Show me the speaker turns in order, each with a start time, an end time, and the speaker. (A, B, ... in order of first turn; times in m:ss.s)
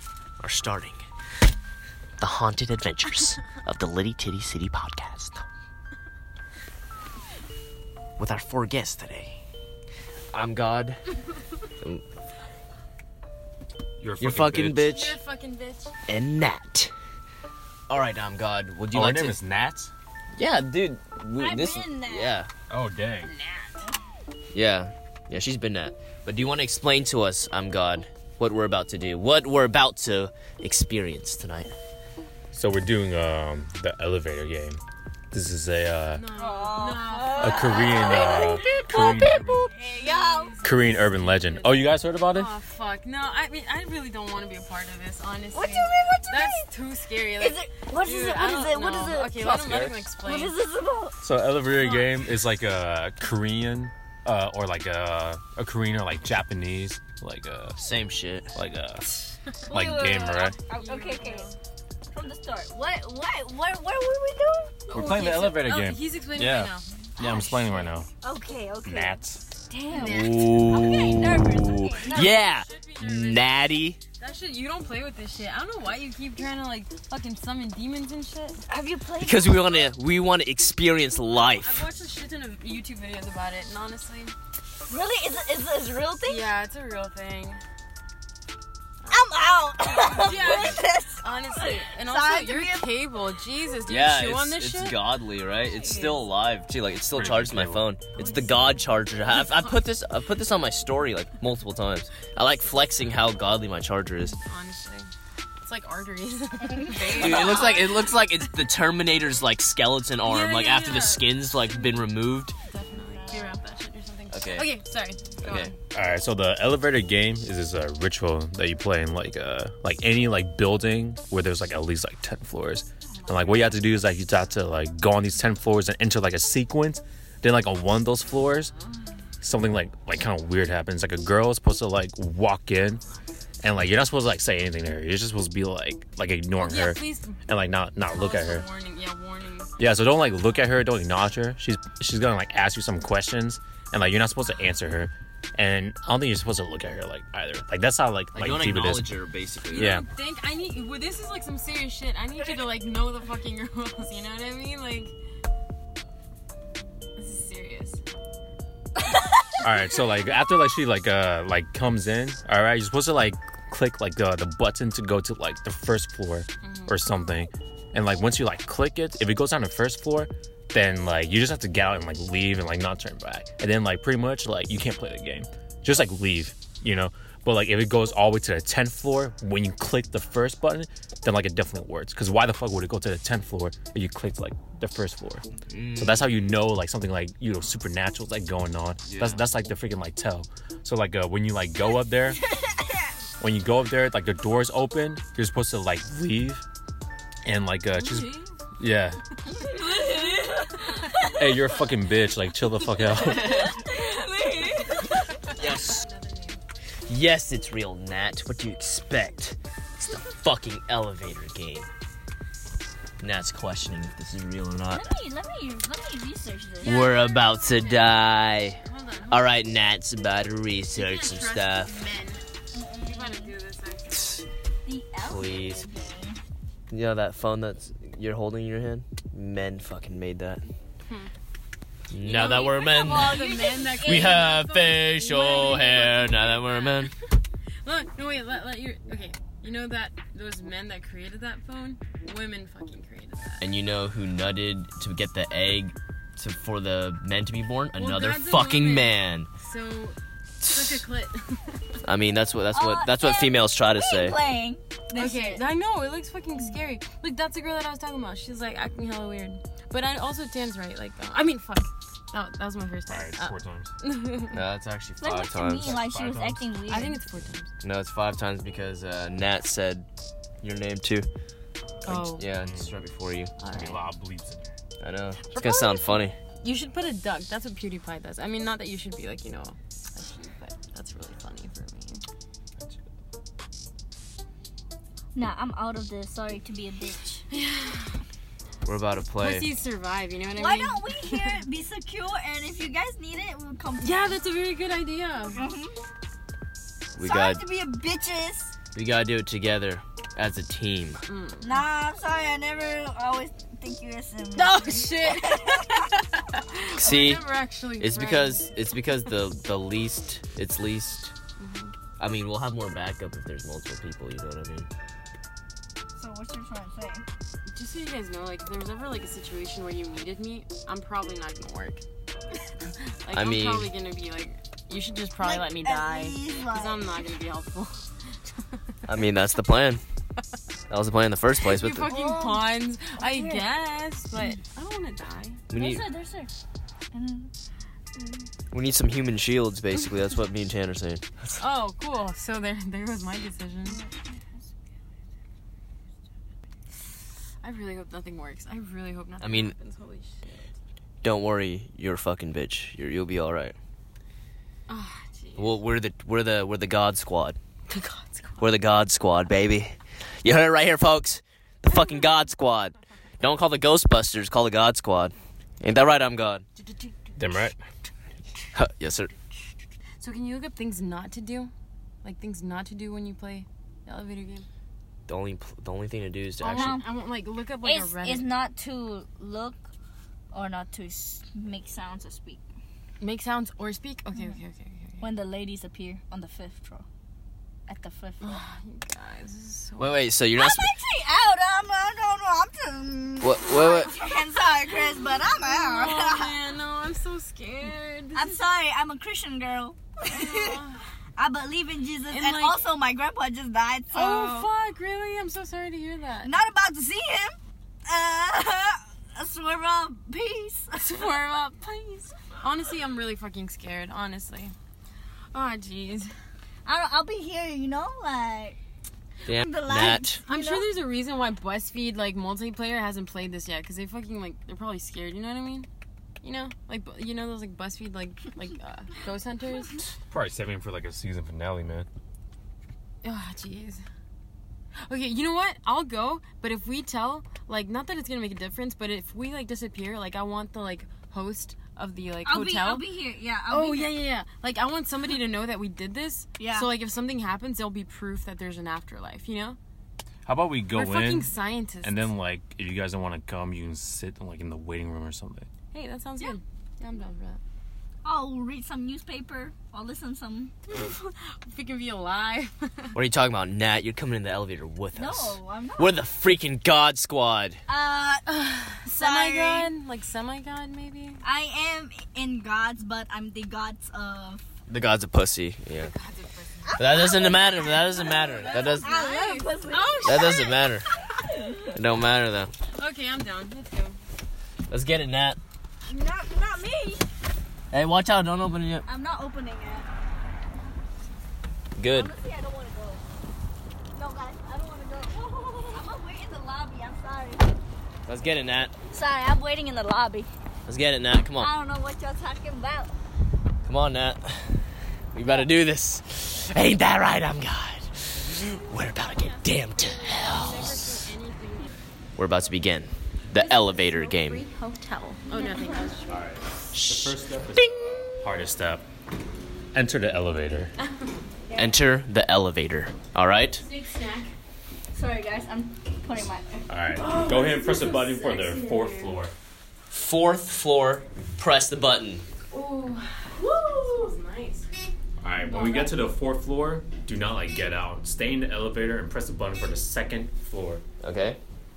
0:00.4-0:01.0 A
0:02.2-0:05.4 A
0:08.2-0:09.4 A
0:10.3-0:11.0 A
0:14.0-0:14.9 B
0:14.2-0:15.2 A
0:14.8-0:15.9 C
0:16.1-0:16.9 A
0:17.9-0:19.4 A
0:18.9-0:19.9 B
0:20.4-0:22.5 A
0:21.4-0:22.4 D
0:22.7-0:23.3 B
0:24.5-0:31.7 A
0:32.5-0:34.8 B
0:35.3-0:36.2 B
0:36.1-0:38.5 C
0:36.4-0:40.5 D
0:37.4-0:39.7 B
0:39.8-0:50.5 C
0:40.6-0:42.5 B
0:45.5-0:46.6 D
0:47.4-0:49.4 D
0:49.4-0:50.0 B
0:50.2-0:51.2 D
0:51.2-0:57.8 B
0:51.7-0:52.2 C
0:57.8-0:58.5 A
0:58.5-0:59.1 B
0:59.7-1:01.5 D
0:59.7-1:00.6 B
1:00.7-1:01.6 C
1:02.1-1:05.2 D
1:04.9-1:07.5 C
1:04.9-1:06.0 B
1:06.4-1:06.7 A
1:07.2-1:08.1 B
1:08.2-1:12.5 D
1:08.8-1:09.4 B
1:09.9-1:10.9 C
1:09.9-1:14.0 A
1:12.0-1:13.5 C
1:14.2-1:18.6 C
1:18.7-1:19.9 D
1:19.2-1:21.8 A
1:21.3-1:24.3 C
1:24.9-1:26.5 D
1:26.2-1:27.6 C
1:29.1-1:32.9 D
1:29.9-1:36.2 C
1:33.9-1:44.4 A
1:37.1-1:37.9 B
1:44.4-1:45.1 C
1:45.6-1:48.2 C
1:47.1-1:52.5 A
1:50.2-1:52.0 C
1:52.6-1:55.8 C
1:54.3-1:54.7 A
1:55.4-1:55.7 A
1:55.9-2:08.7 B
2:03.1-2:03.9 C
2:09.4-2:13.0 B
2:13.6-2:18.7 B
2:16.6-2:17.4 C
2:18.1-2:19.7 C
2:19.8-2:29.1 B
2:28.3-2:29.9 A
2:29.7-2:35.1 C
2:29.7-2:30.1 B
2:37.2-2:38.0 C
2:39.6-3:12.4 B
2:46.6-2:46.9 C
3:05.7-3:06.4 A
3:09.0-3:09.4 A
3:12.6-3:12.9 D
3:13.4-3:16.6 B
3:17.4-3:19.2 B
3:17.9-3:18.5 C
3:19.5-3:21.7 D
3:19.9-3:21.1 C
3:21.2-3:23.7 B
3:23.2-3:23.8 A
3:23.4-3:25.3 D
3:23.9-3:26.6 C
3:25.5-3:26.0 A
3:27.0-3:31.9 A
3:33.2-3:35.2 A
3:34.9-3:37.0 D
3:36.8-3:39.5 C
3:36.8-3:42.1 A
3:40.9-3:42.4 C
3:42.7-3:43.6 D
3:43.0-3:44.4 C
3:44.8-3:46.4 D
3:45.2-3:45.9 A
3:46.9-3:50.7 A
3:51.1-3:51.3 C
3:52.1-3:53.4 A
3:52.2-3:57.1 C
3:52.4-3:54.6 D
3:54.0-3:57.1 A
3:57.8-4:03.7 C
4:03.6-4:09.5 A
4:07.9-4:11.9 C
4:10.6-4:11.0 A
4:12.0-4:14.4 A
4:12.7-4:15.6 D
4:15.1-4:24.6 C
4:23.1-4:23.9 B
4:24.5-4:25.9 A
4:25.2-4:27.2 D
4:25.7-4:26.7 B
4:26.9-4:27.7 C
4:27.8-4:30.1 A
4:30.6-4:31.3 A
4:32.0-4:32.4 C
4:32.0-4:33.5 A
4:32.6-4:32.9 B
4:33.6-4:34.1 C
4:33.7-4:34.6 B
4:35.0-4:36.4 A
4:35.6-4:36.1 C
4:36.6-4:42.2 C
4:45.3-4:47.4 D
4:47.5-4:48.2 C
4:48.8-4:49.7 A
4:49.4-4:51.6 C
4:50.5-4:54.4 D
4:54.0-4:55.6 C
4:55.5-4:56.0 D
4:57.1-4:57.6 A
4:57.2-4:58.7 D
4:58.9-5:01.2 A
5:01.2-5:01.8 C
5:01.6-5:05.8 D
5:04.5-5:08.7 C
5:06.9-5:07.4 A
5:08.0-5:11.3 A
5:11.6-5:11.9 C
5:12.2-5:14.9 A
5:16.2-5:17.2 D
5:17.7-5:22.0 C
5:23.2-5:28.1 C
5:23.3-5:23.9 A
5:25.4-5:27.1 D
5:29.0-5:30.0 A
5:30.9-5:32.1 A
5:31.6-5:35.6 C
5:32.1-5:32.6 D
5:33.2-5:33.7 D
5:35.7-5:36.0 A
5:35.8-5:36.5 D
5:37.1-5:37.5 D
5:38.2-5:38.4 D
5:38.7-5:41.6 A
5:41.6-5:44.0 C
5:47.6-5:50.7 C
5:49.4-5:49.7 A
5:51.2-5:53.8 A
5:54.9-5:55.8 C
5:55.6-5:57.6 A
5:57.9-5:58.6 C
5:58.6-6:06.6 A
6:01.9-6:02.3 C
6:06.8-6:07.4 C
6:07.4-6:07.7 A
6:08.7-6:09.3 A
6:10.2-6:11.7 C
6:12.2-6:14.7 C
6:15.3-6:17.0 A
6:16.6-6:18.6 C
6:16.6-6:17.1 D
6:17.8-6:19.9 D
6:20.5-6:22.6 D
6:23.2-6:25.2 C
6:25.2-6:27.0 D
6:27.9-6:28.6 D
6:28.4-6:30.2 C
6:30.0-6:30.9 A
6:30.6-6:36.6 D
6:33.4-6:34.1 A
6:34.8-6:38.6 C
6:38.3-6:40.8 D
6:40.2-6:41.0 C
6:41.4-6:44.7 D
6:42.2-6:42.9 C
6:44.1-6:46.5 C
6:46.4-6:51.3 D
6:50.9-6:54.7 C
6:55.5-6:56.3 C
6:56.8-6:58.8 D
6:59.4-7:00.4 A
6:59.5-7:00.9 D
7:00.5-7:05.9 C
7:06.4-7:10.0 C
7:10.3-7:12.1 B
7:13.2-7:14.0 C
7:15.0-7:23.1 C
7:22.4-7:24.2 D
7:23.7-7:29.8 C
7:26.6-7:26.9 D
7:30.4-7:35.7 B
7:30.9-7:32.3 C
7:35.9-7:37.6 C
7:38.2-7:40.7 D
7:40.9-7:43.1 C
7:43.1-7:47.8 A
7:45.1-7:46.2 D
7:47.9-7:48.5 D
7:48.5-7:51.4 C
7:49.1-7:49.9 D
7:51.4-7:54.6 D
7:54.9-7:56.1 A
7:56.0-8:00.8 C
7:56.9-8:00.7 D
7:57.0-7:59.2 A
8:00.2-8:01.1 A
8:01.3-8:01.9 D
8:01.8-8:02.7 A
8:02.9-8:04.2 C
8:04.9-8:05.6 A
8:06.1-8:07.3 D
8:07.9-8:09.1 A
8:09.0-8:10.1 D
8:12.0-8:12.3 A
8:12.1-8:13.2 D
8:14.1-8:17.8 D
8:18.2-8:18.9 A
8:19.1-8:20.5 D
8:20.9-8:21.7 A
8:21.6-8:23.1 D
8:23.8-8:31.1 A
8:25.4-8:25.7 D
8:29.0-8:31.9 C
8:32.4-8:34.6 A
8:33.6-8:36.4 C
8:33.8-8:36.1 D
8:36.3-8:39.0 B
8:36.9-8:38.3 A
8:39.9-8:40.9 B
8:41.0-8:41.3 C
8:41.7-8:41.9 D
8:41.7-8:43.8 A
8:43.8-8:44.5 C
8:45.1-8:46.9 D
8:46.9-8:49.5 B
8:47.1-8:49.4 C
8:50.1-8:52.4 A
8:52.7-8:54.9 C
8:53.6-8:54.3 D
8:55.4-9:01.0 B
8:55.6-8:56.2 C
9:01.2-9:01.6 A